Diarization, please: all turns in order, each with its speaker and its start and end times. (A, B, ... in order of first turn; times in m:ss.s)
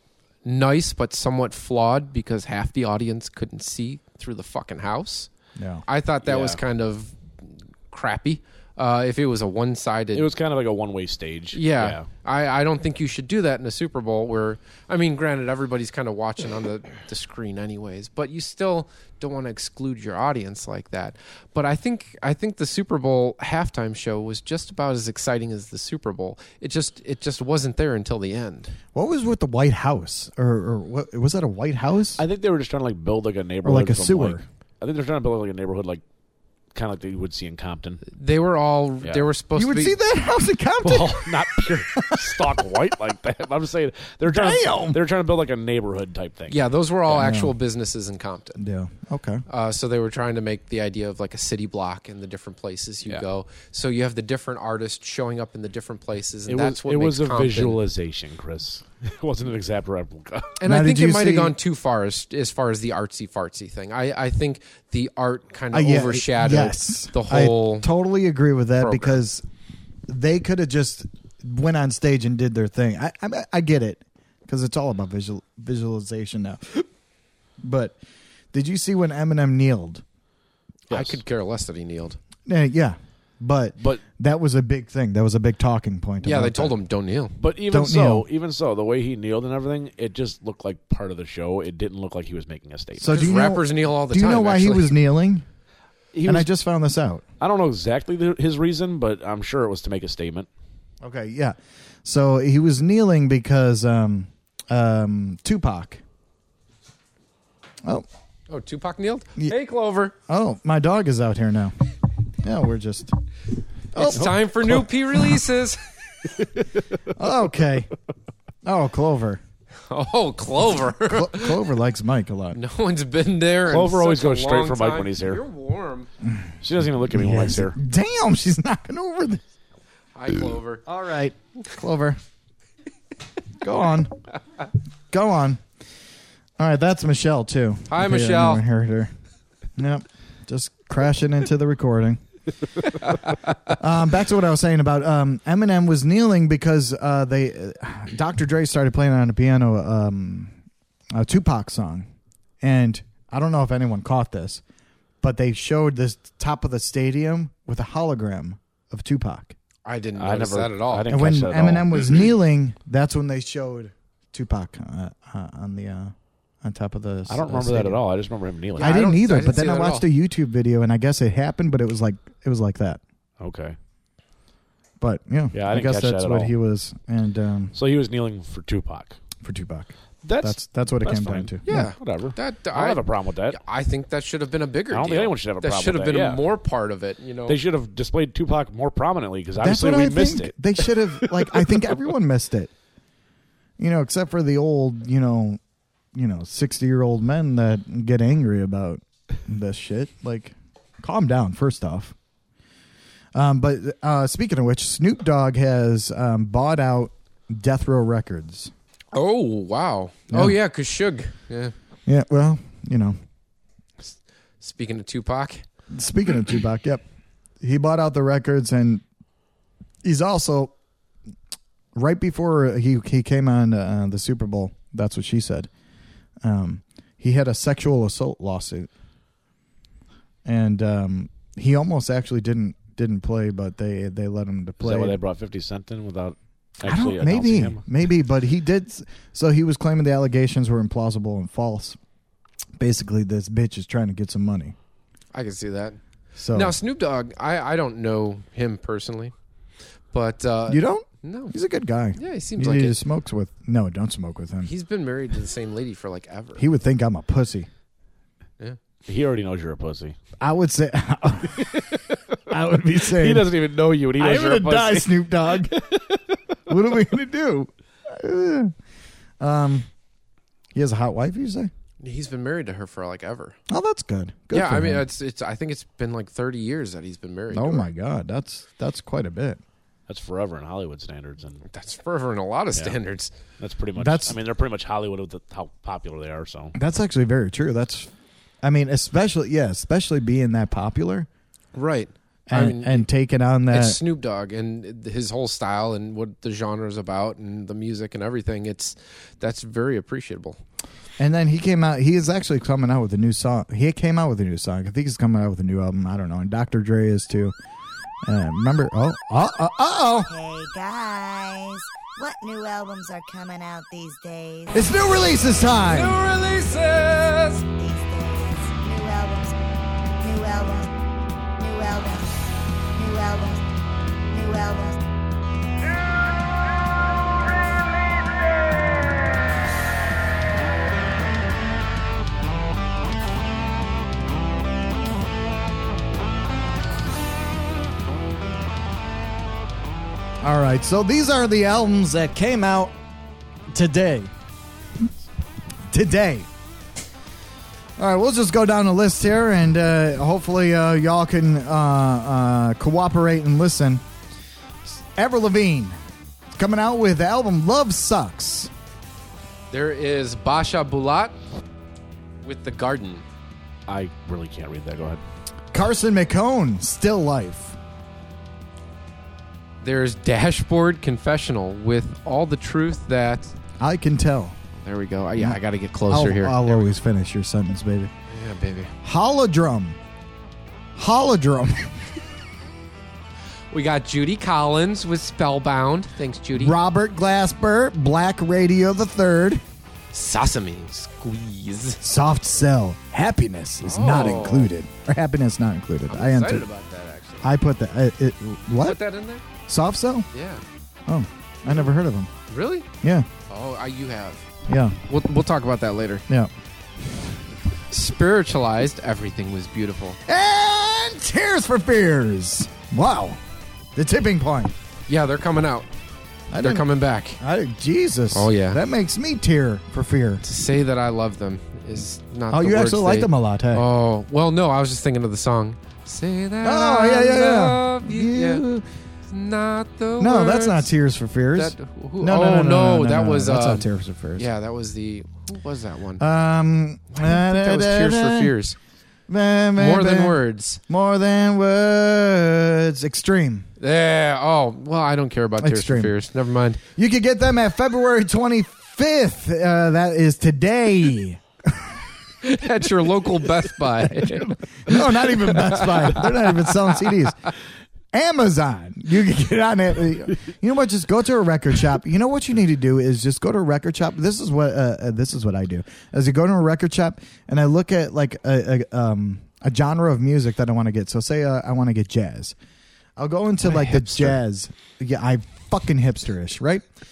0:00.4-0:05.3 A
0:05.6-0:05.8 B
0:05.8-0:10.3 A
0:06.2-0:06.6 C
0:10.1-0:12.1 C
0:11.5-0:28.7 A
0:28.9-0:32.2 B
0:32.2-0:36.0 C
0:33.6-0:34.4 B
0:36.7-0:38.0 C
0:38.1-0:40.0 A
0:39.6-0:42.4 B
0:40.8-0:46.6 C
0:44.3-0:45.0 B
0:46.5-0:48.6 A
0:47.1-0:47.6 B
0:48.6-0:49.4 B
0:49.5-0:57.8 A
0:56.5-1:00.6 C
1:00.6-1:07.9 A
1:00.6-1:01.6 B
1:05.7-1:09.4 B
1:08.8-1:09.2 A
1:10.1-1:16.8 B
1:17.6-1:18.0 B
1:18.5-1:20.0 B
1:20.9-1:22.2 A
1:20.9-1:21.2 C
1:22.4-1:26.8 B
1:26.2-1:27.4 A
1:27.4-1:33.2 C
1:27.7-1:28.2 B
1:33.0-1:35.4 B
1:33.1-1:34.9 A
1:36.1-1:36.5 C
1:36.2-1:37.2 B
1:37.4-1:40.5 C
1:41.0-1:46.0 B
1:48.5-1:50.1 A
1:50.3-1:51.7 B
1:52.4-1:53.1 B
1:53.9-1:54.3 B
1:54.0-1:55.8 A
1:54.1-1:54.8 C
1:57.1-1:57.9 B
1:58.6-1:59.4 B
1:59.9-2:01.6 A
2:01.0-2:02.6 B
2:02.5-2:06.1 A
2:03.7-2:05.4 C
2:06.2-2:09.4 B
2:06.6-2:07.8 C
2:10.1-2:10.8 A
2:10.8-2:12.2 B
2:13.6-2:14.2 B
2:15.1-2:15.6 B
2:16.6-2:19.1 B
2:17.9-2:18.6 A
2:19.8-2:22.2 B
2:23.7-2:30.5 B
2:31.1-2:32.1 B
2:32.6-2:34.6 B
2:35.2-2:39.5 B
2:39.8-2:41.1 A
2:40.2-2:42.1 C
2:41.1-2:48.0 B
2:47.3-2:49.0 C
2:48.8-2:50.0 A
2:48.8-2:53.0 B
2:53.4-2:53.8 C
2:55.0-2:57.8 B
2:55.5-2:56.5 C
2:57.7-2:59.2 C
2:59.4-3:01.9 B
3:00.2-3:03.6 C
3:01.6-3:07.6 A
3:04.9-3:06.4 C
3:07.5-3:11.8 C
3:09.6-3:12.7 B
3:13.8-3:15.6 B
3:16.1-3:22.1 B
3:23.3-3:28.7 B
3:29.1-3:31.7 A
3:30.3-3:30.6 B
3:32.0-3:33.2 B
3:34.0-3:35.6 A
3:35.9-3:37.0 B
3:37.6-3:39.0 B
3:40.0-3:40.7 B
3:41.9-3:45.7 B
3:46.4-3:48.9 B
3:50.4-3:55.2 B
3:54.8-3:57.8 C
3:56.8-4:02.0 B
4:02.8-4:04.7 B
4:05.3-4:06.0 A
4:06.4-4:06.8 B
4:06.5-4:09.3 A
4:10.1-4:11.5 A
4:10.7-4:14.7 B
4:12.2-4:13.0 A
4:14.6-4:16.6 A
4:16.6-4:17.7 B
4:19.0-4:20.2 C
4:20.4-4:21.7 B
4:21.6-4:22.0 C
4:22.5-4:23.5 B
4:23.1-4:26.2 C
4:24.2-4:25.7 B
4:26.7-4:28.7 B
4:29.4-4:29.9 B
4:30.7-4:31.7 B
4:32.0-4:33.6 A
4:33.7-4:35.0 B
4:34.5-4:37.9 A
4:37.5-4:39.6 B
4:40.1-4:41.6 C
4:41.7-4:43.3 A
4:43.6-4:46.7 C
4:44.0-4:44.4 B
4:46.7-4:48.1 B
4:48.6-4:51.3 B
4:51.7-4:53.1 A
4:52.5-4:54.0 B
4:53.7-5:00.6 A
5:01.2-5:07.5 B
5:08.2-5:10.3 B
5:10.3-5:14.7 D
5:14.7-5:16.2 B
5:15.8-5:17.6 A
5:17.8-5:19.5 D
5:20.2-5:20.9 D
5:21.6-5:22.3 D
5:23.0-5:23.6 D
5:24.3-5:25.0 D
5:40.4-5:43.0 B
5:43.7-5:44.3 B
5:45.9-5:46.5 B
5:48.0-5:54.0 B
5:54.8-5:56.0 B
5:56.5-5:58.7 B
5:59.7-6:01.4 A
6:02.4-6:03.2 A
6:03.9-6:05.2 C
6:05.7-6:07.8 B
6:09.8-6:13.5 A
6:13.8-6:14.6 B
6:14.8-6:16.9 A
6:15.4-6:18.1 B
6:18.3-6:18.9 A
6:19.0-6:20.0 B
6:21.0-6:21.9 B
6:23.7-6:26.7 A
6:26.5-6:29.6 B
6:30.1-6:32.0 A
6:32.0-6:36.6 B
6:33.8-6:34.7 A
6:36.1-6:37.5 A
6:37.4-6:39.0 B
6:38.8-6:39.4 A
6:39.7-6:40.3 B
6:40.3-6:40.6 A
6:41.1-6:42.3 B
6:42.5-6:42.9 A
6:43.0-6:43.3 B
6:43.5-6:44.4 A
6:44.7-6:45.0 B
6:45.1-6:46.2 A
6:47.9-6:50.2 A
6:50.3-6:53.4 B
6:53.9-6:54.7 B
6:55.1-6:55.9 A
6:56.5-6:56.9 B
6:56.6-6:57.4 A
6:57.4-7:00.4 B
6:58.3-6:58.8 A
7:00.4-7:08.6 A
7:02.5-7:03.8 B
7:06.6-7:08.8 B
7:09.3-7:10.9 A
7:10.2-7:14.5 B
7:11.5-7:16.2 A
7:16.2-7:18.5 B
7:17.1-7:18.8 A
7:19.3-7:23.7 B
7:19.8-7:20.8 A
7:23.8-7:26.8 A
7:25.6-7:26.1 B
7:27.0-7:31.9 B
7:32.4-7:36.7 A
7:34.2-7:37.4 B
7:38.1-7:52.5 B
7:53.2-7:56.8 B
7:53.6-7:54.4 C